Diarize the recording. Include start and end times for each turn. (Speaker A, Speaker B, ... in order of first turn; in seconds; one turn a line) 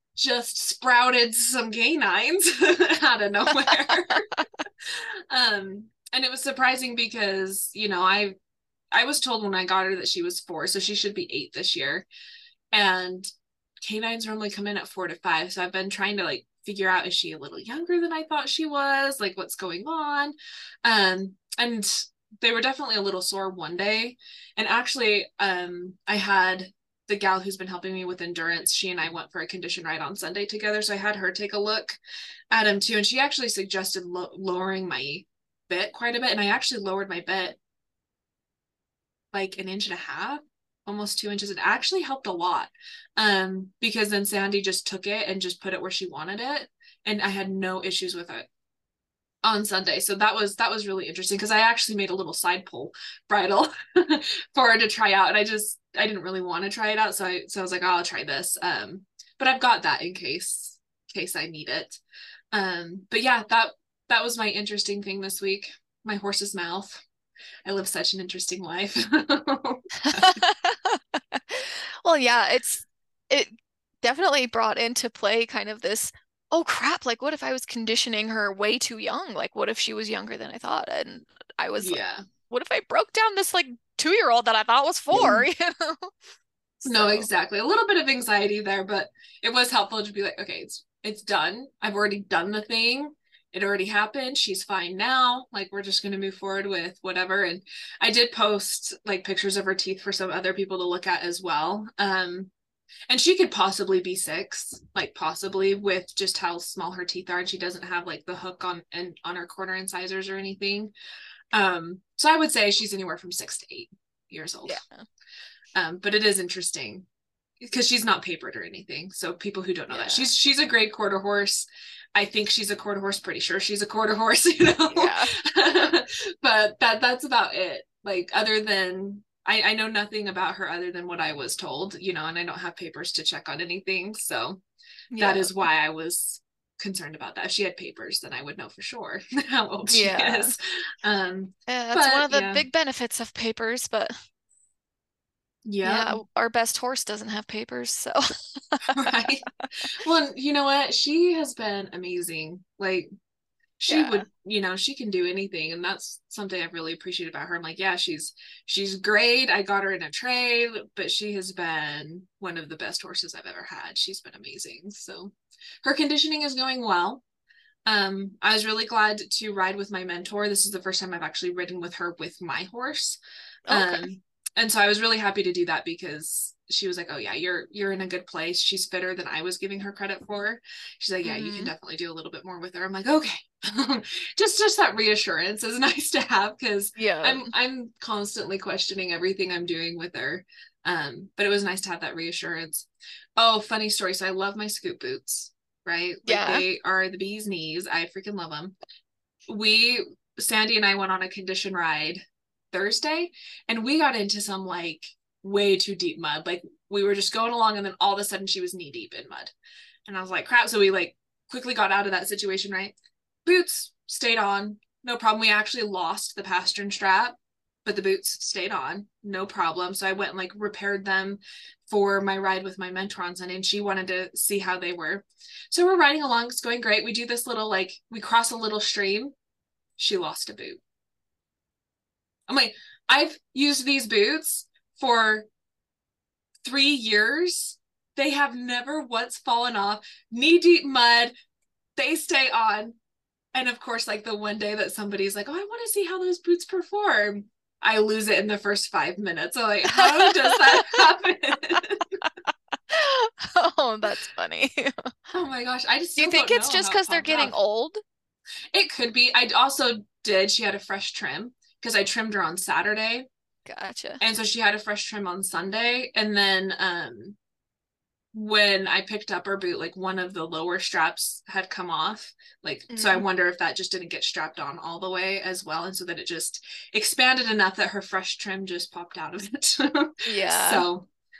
Speaker A: 0.1-8.4
Speaker B: 3.6-4.1
Speaker A: 8.9-12.1
Speaker A: 12.7-13.3
Speaker A: 13.8-32.0
Speaker A: 32.5-37.6
Speaker A: 39.3-48.5
Speaker A: 49.4-62.0
Speaker A: 62.5-67.0
Speaker A: 67.7-70.4
Speaker B: 70.0-82.0
Speaker A: 81.8-82.2
Speaker B: 82.5-86.1
Speaker A: 85.1-85.5
Speaker B: 86.8-87.3
Speaker A: 86.8-102.5
Speaker A: 103.1-110.9
Speaker A: 111.5-114.8
Speaker B: 114.7-115.0
Speaker A: 115.8-117.0
Speaker A: 117.6-134.6
Speaker B: 119.9-120.3
Speaker B: 124.9-125.3
Speaker B: 135.1-135.6
Speaker A: 135.2-142.6
Speaker B: 139.9-140.5
Speaker B: 141.7-144.1
Speaker A: 145.7-146.2
Speaker B: 145.8-149.2
Speaker A: 148.8-153.1
Speaker A: 153.8-167.2
Speaker B: 153.9-154.2
Speaker A: 167.9-173.2
Speaker B: 173.7-174.1
Speaker A: 173.7-198.7
Speaker B: 181.2-181.7
Speaker B: 186.9-187.5
Speaker B: 196.2-196.6
Speaker A: 199.5-209.5
Speaker A: 210.1-212.9
Speaker A: 213.4-229.3
Speaker A: 230.0-230.8
Speaker A: 232.5-235.5
Speaker A: 236.6-241.3
Speaker A: 242.0-243.0
Speaker A: 243.5-252.2
Speaker B: 249.9-251.0
Speaker B: 252.9-255.1
Speaker A: 255.3-257.6
Speaker B: 256.2-258.0
Speaker A: 258.7-263.3
Speaker B: 263.6-264.2
Speaker A: 264.2-267.4
Speaker A: 268.3-281.1
Speaker B: 272.9-273.2
Speaker B: 280.2-280.9